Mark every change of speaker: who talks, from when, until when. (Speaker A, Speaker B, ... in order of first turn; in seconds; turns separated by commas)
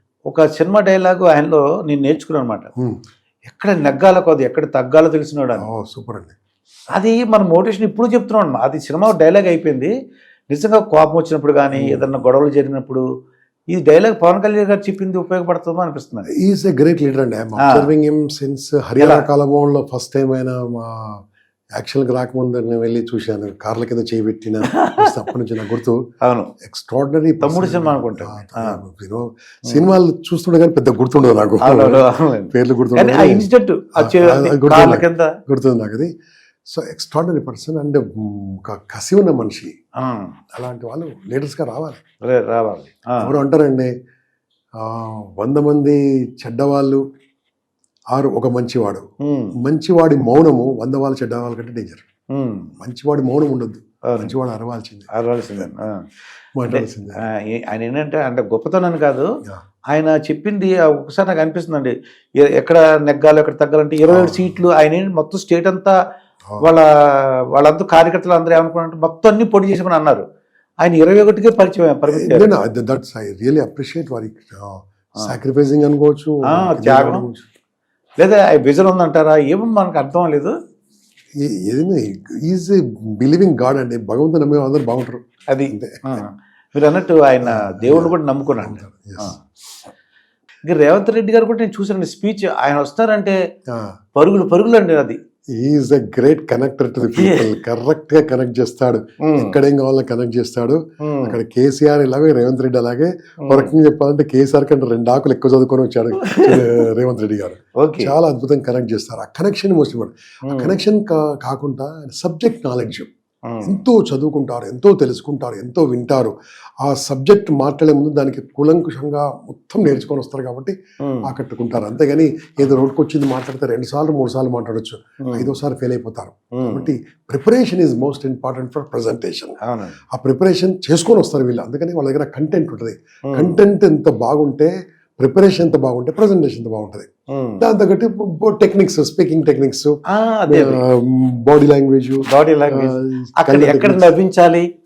Speaker A: 0.3-2.7, Speaker A: 3.5-5.7, Speaker B: 5.6-6.3, Speaker A: 6.9-9.9, Speaker A: 10.5-13.0, Speaker B: 11.7-12.1, Speaker A: 13.7-16.3, Speaker B: 16.4-21.2, Speaker A: 17.6-17.9, Speaker A: 19.0-19.3, Speaker B: 21.8-26.0, Speaker A: 24.7-25.1, Speaker A: 26.2-26.5, Speaker B: 26.6-33.5, Speaker A: 27.4-28.8, Speaker A: 31.6-35.4, Speaker B: 34.0-36.1, Speaker B: 36.7-39.7, Speaker A: 40.0-40.4, Speaker B: 40.5-42.0, Speaker A: 42.2-43.3, Speaker B: 43.2-43.9, Speaker B: 44.8-47.0, Speaker B: 48.1-49.1, Speaker A: 49.2-49.5, Speaker B: 49.6-52.0, Speaker A: 52.3-52.7, Speaker B: 52.8-55.7, Speaker A: 54.1-54.3, Speaker A: 55.1-56.0, Speaker B: 56.6-57.2, Speaker A: 56.7-59.3, Speaker A: 59.9-66.0, Speaker B: 64.1-64.6, Speaker A: 66.6-70.2, Speaker A: 70.8-72.5, Speaker B: 72.1-77.5, Speaker A: 76.5-77.2, Speaker A: 78.2-80.5, Speaker B: 81.4-86.3, Speaker A: 85.5-89.4, Speaker B: 87.5-89.4, Speaker A: 90.7-93.4, Speaker B: 93.7-94.0, Speaker A: 94.2-95.2, Speaker B: 95.6-113.1, Speaker A: 97.2-97.5, Speaker A: 99.2-99.6, Speaker A: 101.0-101.4, Speaker A: 103.5-103.7, Speaker A: 106.3-106.8, Speaker A: 107.8-108.1, Speaker A: 110.5-110.8, Speaker A: 113.5-113.8, Speaker B: 113.6-129.6, Speaker A: 121.0-121.3, Speaker A: 125.2-125.5, Speaker A: 126.6-126.9, Speaker A: 129.6-130.0, Speaker B: 130.1-144.1, Speaker A: 133.3-133.6, Speaker A: 137.3-137.7, Speaker A: 140.1-140.8, Speaker A: 142.3-144.7